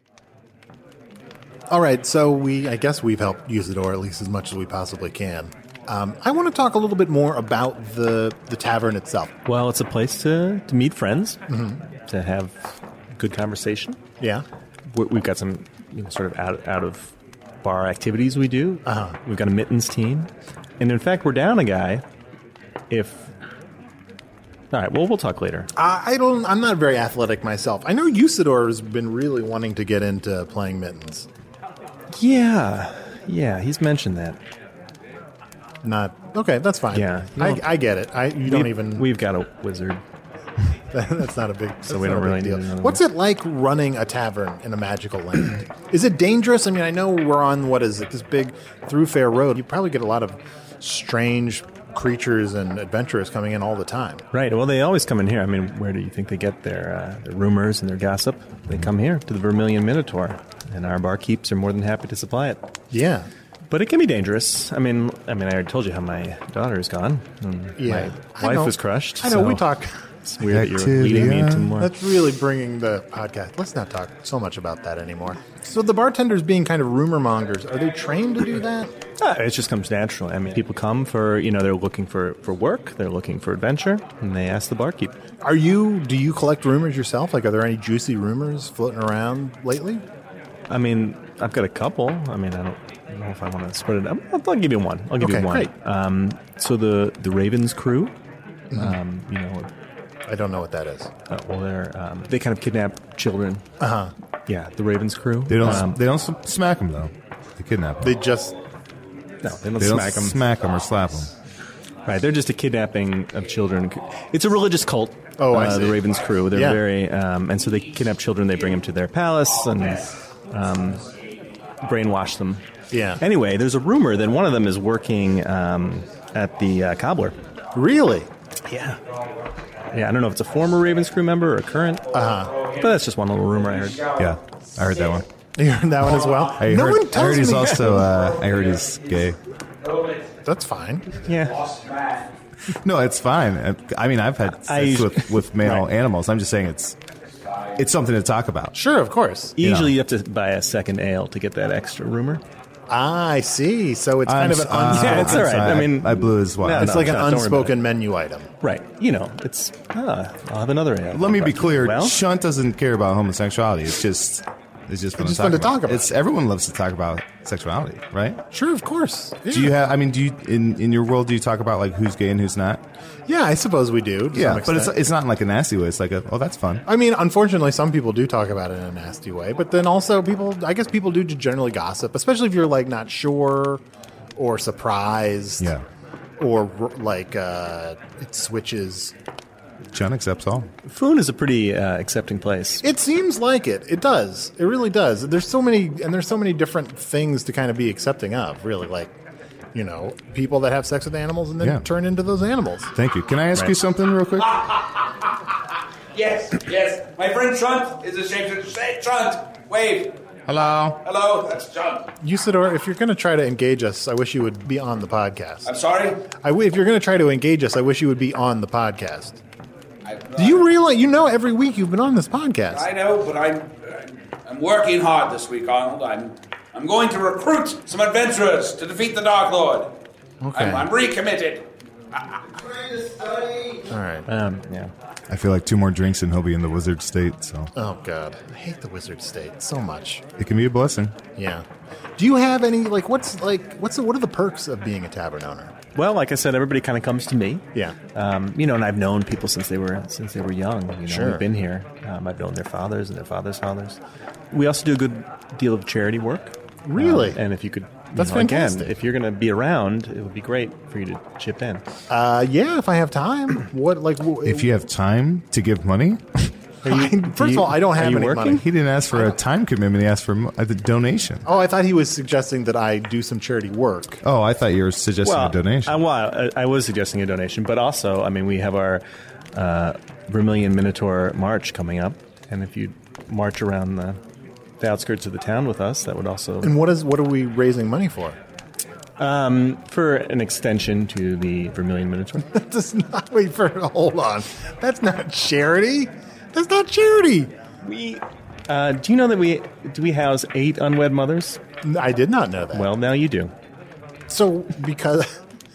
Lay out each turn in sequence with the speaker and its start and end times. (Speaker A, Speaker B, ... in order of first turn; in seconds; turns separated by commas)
Speaker A: 1.7-9.3, Speaker B: 9.5-11.4, Speaker A: 11.5-11.8, Speaker B: 12.1-14.0, Speaker B: 14.9-17.1, Speaker B: 17.6-20.3, Speaker A: 18.9-19.1, Speaker B: 20.8-22.0, Speaker B: 22.9-23.2, Speaker B: 24.7-25.7, Speaker A: 25.8-31.3, Speaker B: 32.1-34.4, Speaker A: 35.8-39.1, Speaker B: 36.9-37.7, Speaker B: 38.4-40.0, Speaker A: 40.9-54.2, Speaker B: 41.9-43.0, Speaker B: 54.3-62.6, Speaker A: 62.9-63.3, Speaker B: 63.7-69.6, Speaker A: 67.8-69.9, Speaker B: 70.3-71.9, Speaker C: 70.4-71.8, Speaker A: 71.8-78.9, Speaker B: 79.2-85.1, Speaker A: 85.4-90.0, Speaker B: 90.7-98.1, Speaker A: 95.2-95.7, Speaker A: 98.7-99.0, Speaker B: 98.7-99.7, Speaker A: 100.3-101.1, Speaker B: 101.3-103.6, Speaker A: 103.8-104.1, Speaker B: 104.5-106.0, Speaker C: 105.5-108.2, Speaker A: 108.0-108.5, Speaker B: 109.4-110.4, Speaker C: 109.8-111.3, Speaker B: 112.1-121.0, Speaker A: 115.4-116.8, Speaker D: 119.8-120.1, Speaker B: 121.8-122.6, Speaker A: 122.9-123.2, Speaker B: 123.2-127.4, Speaker A: 127.8-128.3, Speaker B: 128.7-129.0, Speaker D: 129.1-131.0, Speaker B: 129.9-132.1, Speaker D: 132.1-135.2, Speaker A: 132.1-132.5, Speaker B: 132.8-134.0, Speaker C: 134.2-135.3, Speaker A: 135.6-138.1, Speaker D: 136.0-136.8, Speaker C: 136.6-139.4, Speaker D: 138.0-140.3, Speaker A: 140.5-141.1, Speaker B: 141.3-141.6, Speaker D: 141.3-142.3, Speaker C: 142.8-147.0, Speaker B: 144.6-145.9, Speaker D: 147.4-147.8, Speaker C: 147.8-148.8, Speaker A: 148.7-149.5, Speaker B: 149.6-152.4, Speaker C: 149.6-150.0, Speaker A: 152.9-155.9, Speaker C: 154.3-157.2, Speaker B: 154.9-157.8, Speaker A: 156.7-158.5, Speaker B: 158.6-162.2, Speaker C: 161.1-168.4, Speaker A: 165.2-166.1, Speaker A: 168.5-169.7, Speaker C: 169.5-172.8, Speaker A: 173.3-174.9, Speaker C: 174.3-176.8, Speaker A: 176.9-183.8, Speaker A: 184.4-185.7, Speaker C: 185.6-185.8, Speaker A: 186.4-189.1, Speaker C: 189.9-190.7, Speaker B: 190.9-192.8, Speaker A: 192.8-199.1, Speaker A: 199.7-202.9, Speaker C: 202.9-204.6, Speaker D: 204.5-205.0, Speaker D: 206.1-210.2, Speaker C: 210.5-211.0, Speaker D: 210.9-212.1, Speaker A: 212.2-215.7, Speaker D: 215.7-216.2, Speaker A: 216.4-219.4, Speaker D: 220.1-220.7, Speaker A: 220.4-222.9, Speaker D: 222.7-229.9, Speaker A: 230.4-230.9, Speaker D: 230.6-233.8, Speaker A: 233.9-234.2, Speaker B: 234.3-234.9, Speaker C: 235.3-237.7, Speaker A: 237.8-240.2, Speaker C: 240.4-241.2, Speaker A: 241.4-241.7, Speaker A: 242.2-245.7, Speaker B: 245.9-254.0, Speaker A: 251.1-251.4, Speaker B: 254.5-261.8, Speaker A: 256.9-257.4, Speaker A: 258.2-258.9, Speaker A: 262.1-264.7, Speaker C: 264.4-266.5, Speaker B: 266.9-268.6, Speaker A: 266.9-269.4, Speaker C: 268.5-271.4, Speaker A: 271.5-274.2, Speaker C: 274.2-276.0, Speaker B: 275.2-279.0, Speaker B: 279.5-284.2, Speaker B: 284.8-286.8, Speaker A: 286.6-288.4, Speaker B: 289.2-292.5, Speaker A: 292.5-297.5, Speaker B: 297.8-301.6, Speaker A: 301.8-302.9, Speaker B: 302.7-303.5, Speaker A: 304.3-305.3